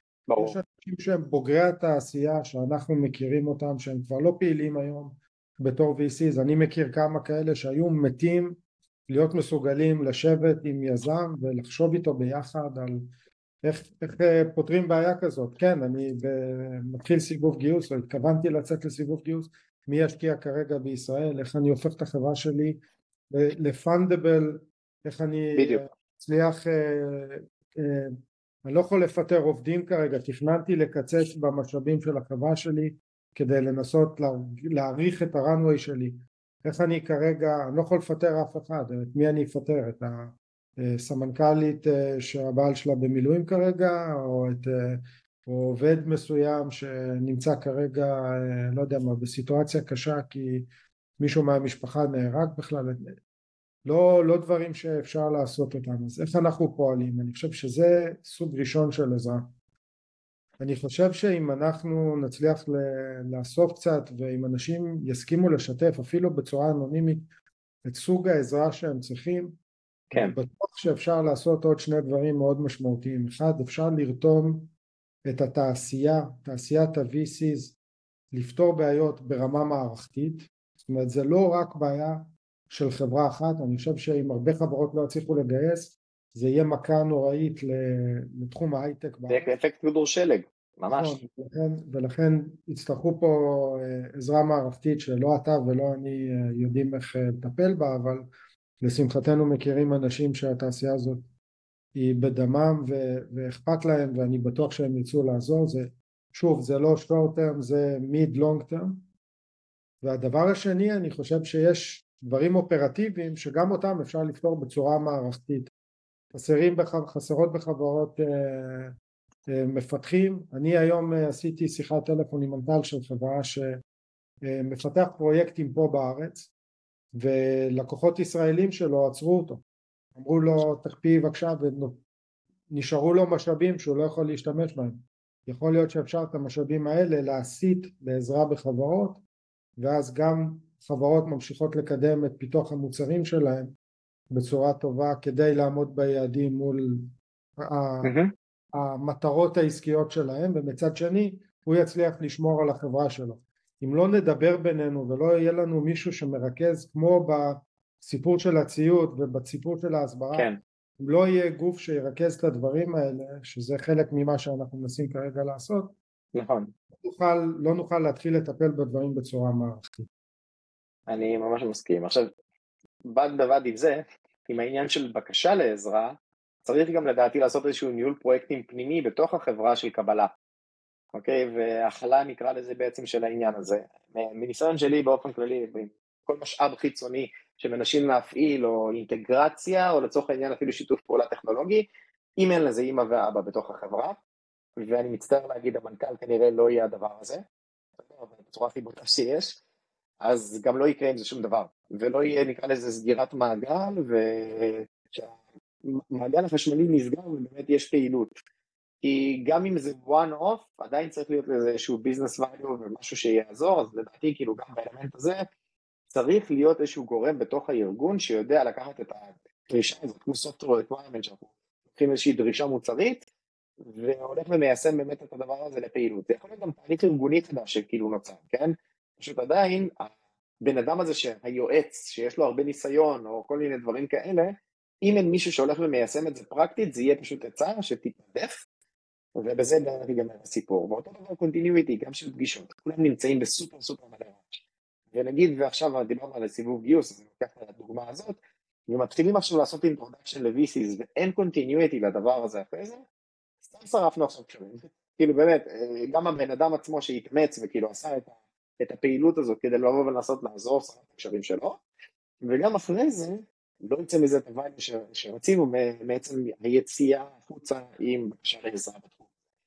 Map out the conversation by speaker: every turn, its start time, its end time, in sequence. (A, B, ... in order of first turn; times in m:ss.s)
0:00.3-0:00.6 A
0:00.4-0:13.1 B
0:13.6-0:22.8 B
0:23.3-0:53.1 B
0:25.6-0:25.8 A
0:53.8-0:59.5 B
1:00.6-1:07.3 B
1:07.8-1:09.6 B
1:10.1-1:10.4 A
1:10.1-1:14.7 B
1:15.3-1:17.8 B
1:18.3-1:29.5 B
1:29.3-1:31.2 A
1:30.9-1:38.3 B
1:38.8-1:41.3 B
1:41.9-1:49.0 B
1:50.0-1:55.7 B
1:56.3-1:58.9 B
1:59.5-2:03.8 B
2:04.5-2:06.5 B
2:07.1-2:09.6 B
2:10.2-2:12.0 B
2:12.7-2:19.2 B
2:19.8-2:23.7 B
2:24.3-2:28.1 B
2:28.0-2:28.3 A
2:28.8-2:46.0 B
2:40.3-2:40.6 A
2:46.3-2:46.7 A
2:47.0-2:50.1 B
2:51.1-2:52.3 A
2:53.1-3:00.3 A
3:01.1-3:14.2 A
3:14.8-3:17.4 A
3:18.0-3:19.6 A
3:20.2-3:25.3 A
3:25.8-3:28.4 A
3:29.0-3:35.4 A
3:36.1-3:43.2 A
3:43.8-3:50.1 A
3:50.6-3:58.6 A
3:59.4-4:04.5 A
4:05.1-4:13.0 A
4:13.6-4:21.8 A
4:22.4-4:29.2 A